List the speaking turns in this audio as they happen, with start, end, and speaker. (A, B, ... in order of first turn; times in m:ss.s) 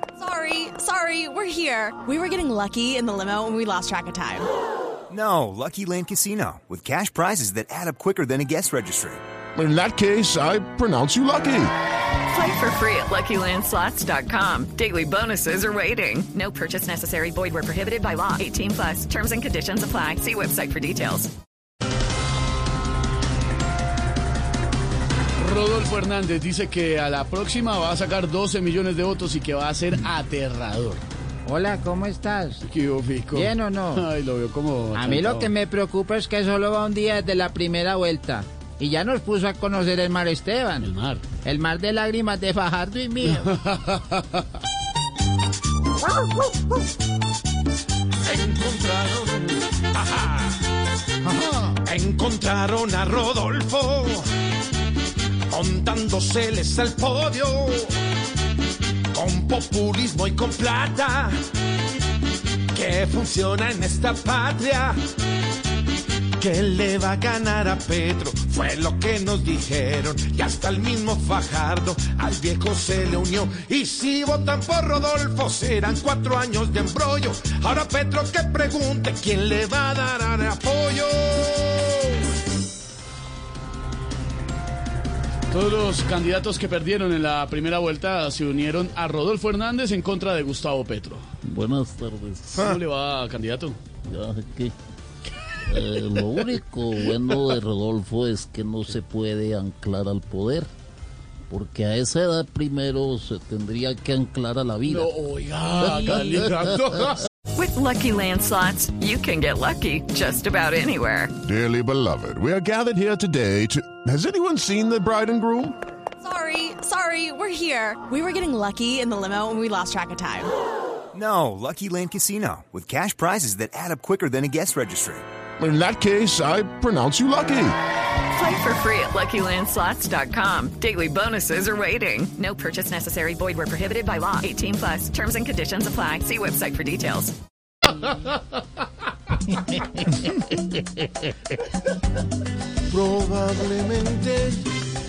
0:00.2-0:04.4 A
0:05.1-0:09.2 B
0:09.6-0:11.7 C
0:12.3-0:21.3 D
0:25.4-0:31.0 E
0:31.5-0:32.6 F
0:32.6-0:35.5 E
0:33.3-0:34.0 F
0:34.9-0:40.9 F
0:40.8-0:41.2 E
0:41.4-0:43.5 F
0:48.2-0:50.6 G
0:51.8-0:54.2 G
0:55.5-0:58.0 G
0:59.1-1:01.4 G
1:02.7-1:05.0 G
1:06.4-1:22.2 G
1:25.5-1:31.2 E
1:31.4-1:32.7 H
1:32.5-1:33.8 E
1:34.1-1:34.7 H
1:35.7-1:40.7 H
1:41.5-1:45.1 H
1:44.8-1:47.2 E
1:45.8-1:46.8 H
1:47.5-1:51.3 D
1:51.4-1:55.7 C
1:56.2-2:00.5 A
2:01.1-2:05.2 B
2:05.6-2:07.8 C
2:08.3-2:17.3 D
2:22.9-2:24.7 G